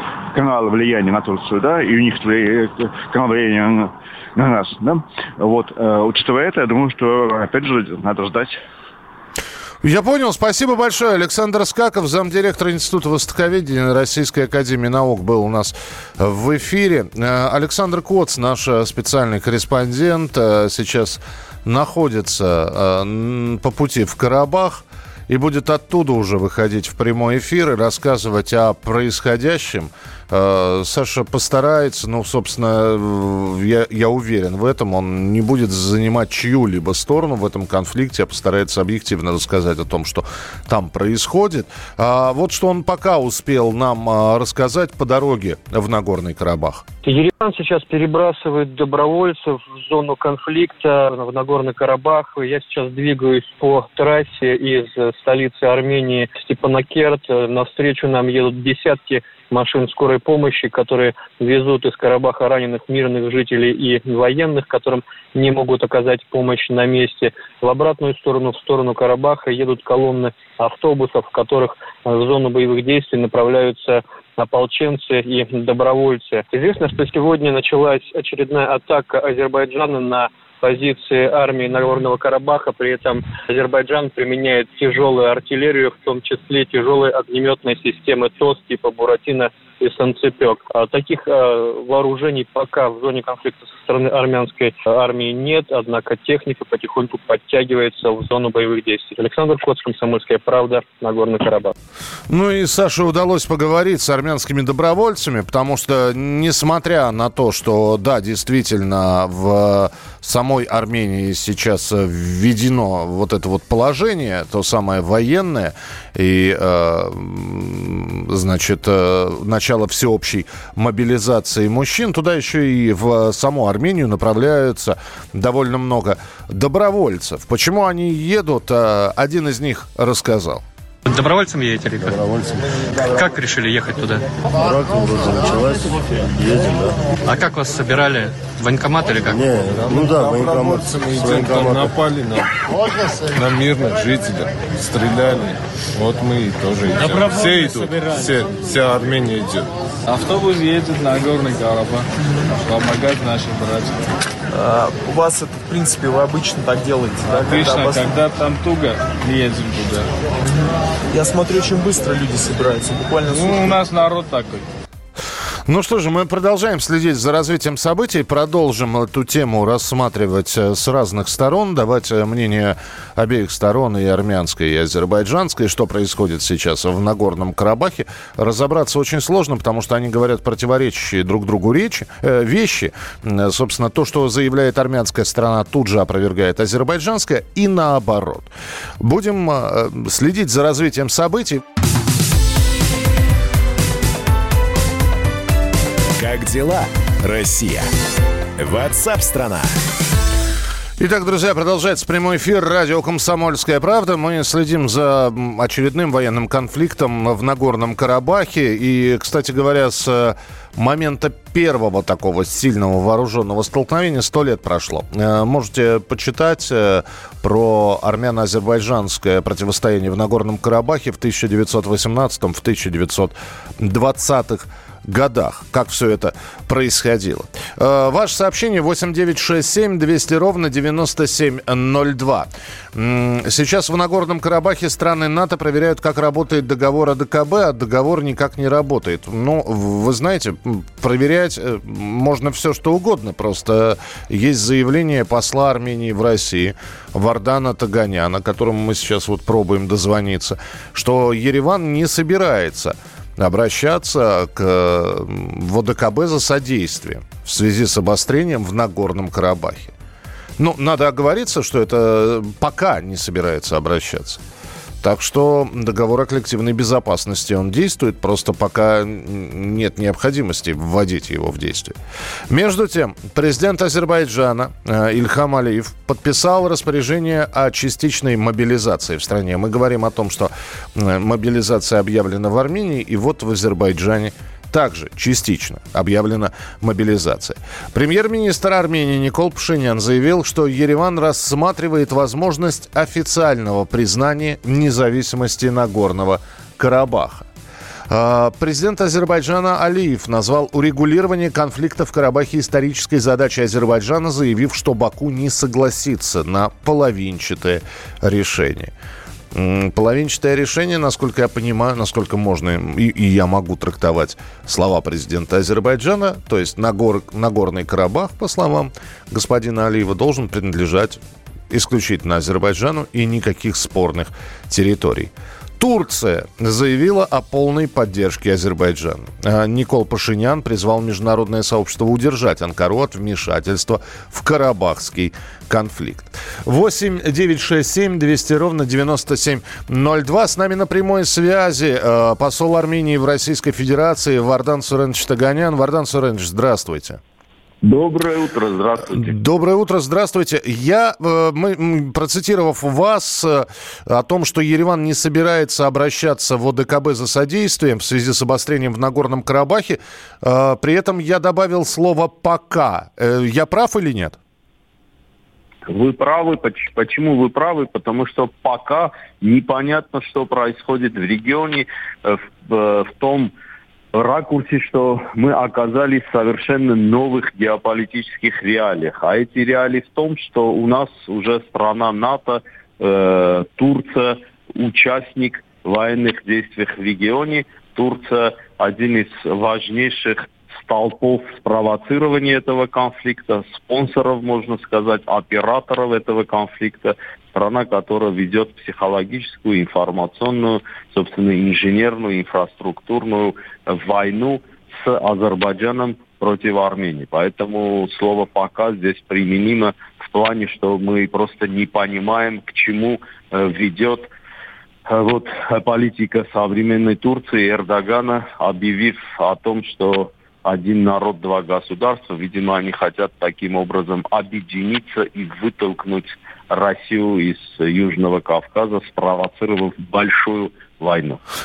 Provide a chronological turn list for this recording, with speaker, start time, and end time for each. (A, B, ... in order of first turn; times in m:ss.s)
0:00.3-0:08.6 A
0:09.8-0:46.8 B
0:47.0-1:41.7 C
1:42.3-2:10.6 B
2:11.0-2:12.2 D
2:12.0-2:12.6 E
2:13.0-2:14.2 D
2:14.6-2:17.0 E
2:17.2-2:19.4 D
2:19.2-2:21.9 E
2:19.7-2:22.4 F
2:23.3-2:29.7 F
2:30.1-2:32.0 G
2:32.6-2:34.1 G
2:34.5-2:38.2 H
2:37.4-2:40.1 G
2:41.1-2:43.8 H
2:43.3-2:44.7 G
2:45.6-3:11.6 B
3:16.2-3:17.9 I
3:18.6-3:19.8 I
3:21.0-4:19.9 B
4:20.6-4:24.4 B
4:25.0-4:32.0 B
4:32.5-4:57.4 B
4:58.1-5:08.9 B
5:09.5-5:47.2 B
5:47.8-5:49.3 J
5:49.2-6:04.4 B
6:05.9-6:13.5 J
6:14.1-6:54.3 J
6:55.1-7:11.4 J